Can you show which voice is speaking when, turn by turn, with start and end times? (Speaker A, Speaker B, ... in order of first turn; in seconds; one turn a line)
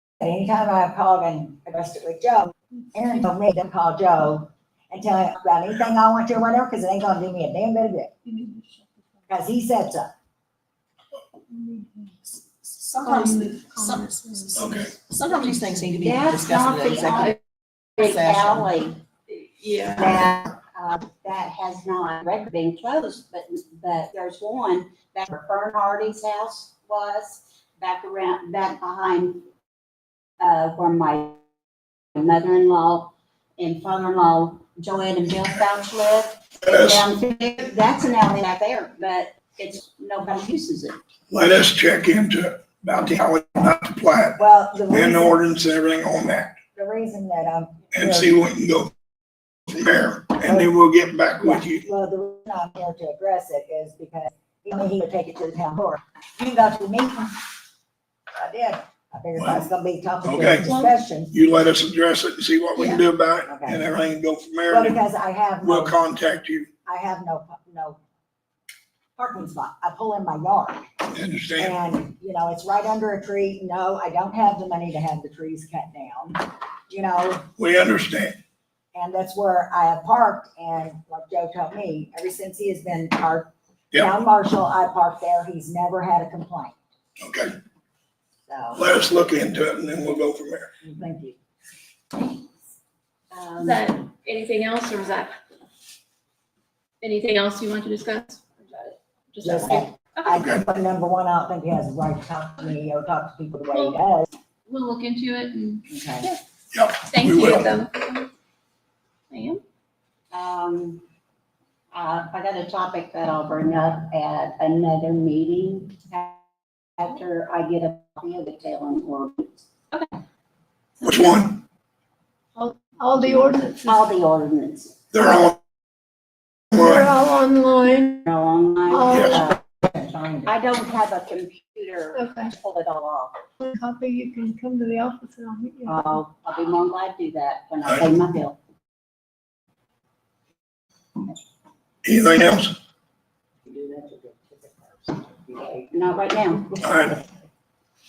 Speaker A: 0.2-8.1
Speaker A: 9.3-10.1
Speaker B: 11.6-11.8
Speaker C: 12.6-17.4
Speaker B: 13.2-14.3
Speaker D: 14.6-14.9
Speaker E: 15.9-17.4
Speaker E: 18.0-19.0
Speaker C: 18.0-18.7
Speaker F: 19.3-20.2
Speaker E: 20.0-29.5
Speaker E: 30.4-31.4
Speaker E: 32.1-41.0
Speaker D: 36.7-37.0
Speaker D: 41.3-46.6
Speaker A: 44.4-45.4
Speaker A: 46.8-48.3
Speaker D: 47.9-48.9
Speaker D: 49.7-51.9
Speaker A: 51.4-57.3
Speaker A: 58.4-61.3
Speaker D: 60.2-60.7
Speaker D: 61.3-65.0
Speaker A: 63.5-63.8
Speaker A: 64.7-66.0
Speaker D: 65.6-66.7
Speaker A: 66.9-68.0
Speaker A: 69.2-70.9
Speaker D: 71.1-71.8
Speaker A: 71.6-77.5
Speaker D: 77.6-78.4
Speaker A: 79.0-86.8
Speaker D: 87.2-87.6
Speaker A: 88.5-88.8
Speaker D: 88.8-90.7
Speaker A: 90.8-91.4
Speaker E: 93.3-93.8
Speaker F: 93.6-95.4
Speaker F: 97.0-100.4
Speaker A: 99.4-104.3
Speaker D: 100.3-100.7
Speaker F: 103.7-104.0
Speaker F: 104.7-106.4
Speaker A: 105.9-106.3
Speaker D: 106.7-107.7
Speaker F: 107.1-108.3
Speaker F: 109.3-109.6
Speaker E: 110.3-111.0
Speaker E: 111.9-116.5
Speaker E: 117.0-120.0
Speaker D: 121.0-121.6
Speaker B: 122.6-124.0
Speaker E: 123.4-125.1
Speaker D: 125.1-125.6
Speaker B: 126.7-128.2
Speaker E: 128.2-129.6
Speaker B: 128.9-129.4
Speaker D: 129.1-129.4
Speaker A: 129.8-130.6
Speaker E: 130.4-133.4
Speaker B: 132.2-132.5
Speaker B: 133.6-136.0
Speaker E: 135.9-138.6
Speaker D: 142.0-142.8
Speaker A: 143.7-145.9
Speaker E: 145.9-146.8
Speaker D: 146.8-147.2